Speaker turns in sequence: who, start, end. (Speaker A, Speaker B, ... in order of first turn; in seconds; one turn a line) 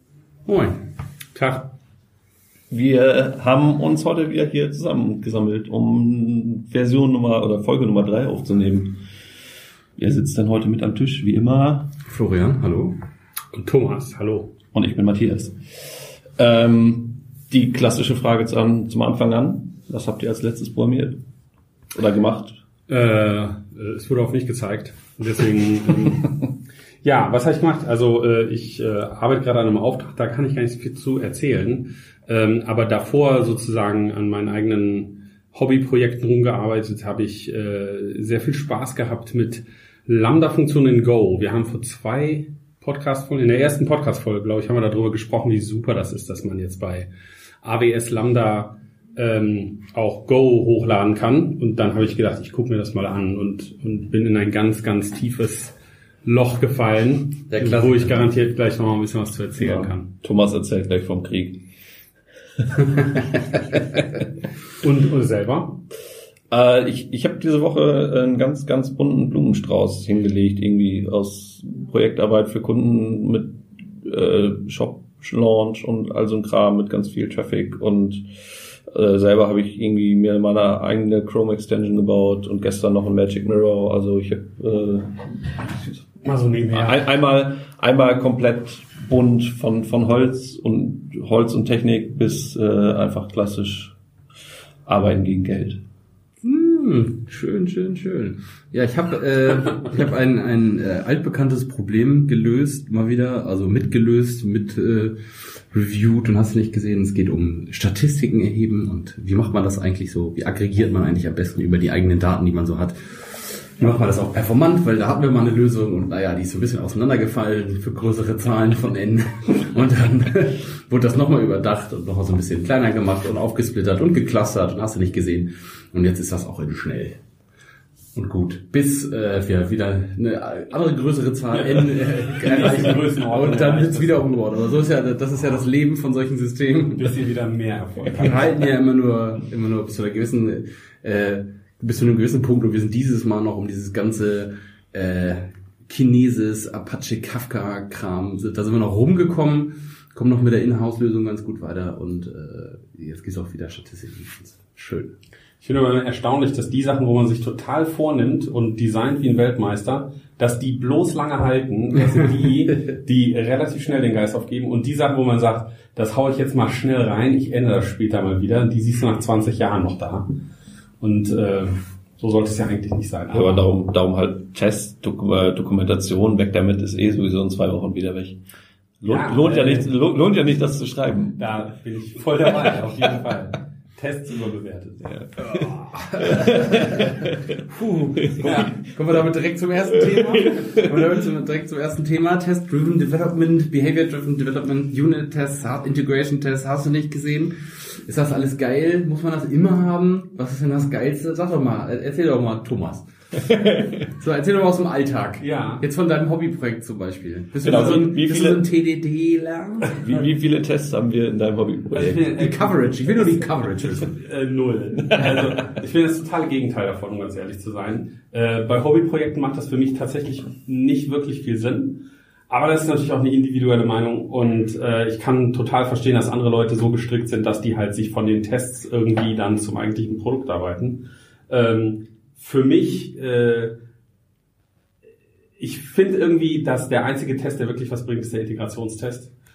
Speaker A: 0.5-0.7
Speaker B: 1.4-1.7
Speaker C: 2.7-9.0
Speaker C: 10.0-11.9
Speaker A: 12.1-12.9
Speaker B: 13.5-14.6
Speaker C: 14.7-15.5
Speaker C: 16.4-21.2
Speaker C: 21.9-22.6
Speaker B: 22.9-26.4
Speaker B: 27.0-47.1
Speaker B: 47.6-60.1
Speaker A: 57.5-58.2
Speaker C: 60.2-61.6
Speaker B: 64.8-65.8
Speaker C: 66.5-86.1
Speaker B: 86.2-87.0
Speaker C: 86.7-93.9
Speaker C: 94.9-95.8
Speaker A: 96.4-105.2
Speaker A: 105.7-127.2
Speaker A: 128.2-137.1
Speaker B: 131.5-134.3
Speaker B: 137.0-138.5
Speaker A: 138.1-155.1
Speaker B: 155.6-170.3
Speaker B: 171.0-173.7
Speaker C: 173.3-178.4
Speaker C: 179.0-181.5
Speaker B: 179.1-179.9
Speaker B: 181.4-185.2
Speaker C: 185.1-187.6
Speaker A: 185.6-210.1
Speaker C: 188.2-188.7
Speaker B: 188.4-188.7
Speaker C: 190.0-191.1
Speaker C: 203.4-204.1
Speaker B: 205.4-205.8
Speaker C: 207.6-208.7
Speaker C: 209.9-212.2
Speaker B: 211.9-233.8
Speaker A: 212.1-214.2
Speaker C: 215.1-215.4
Speaker B: 235.6-239.3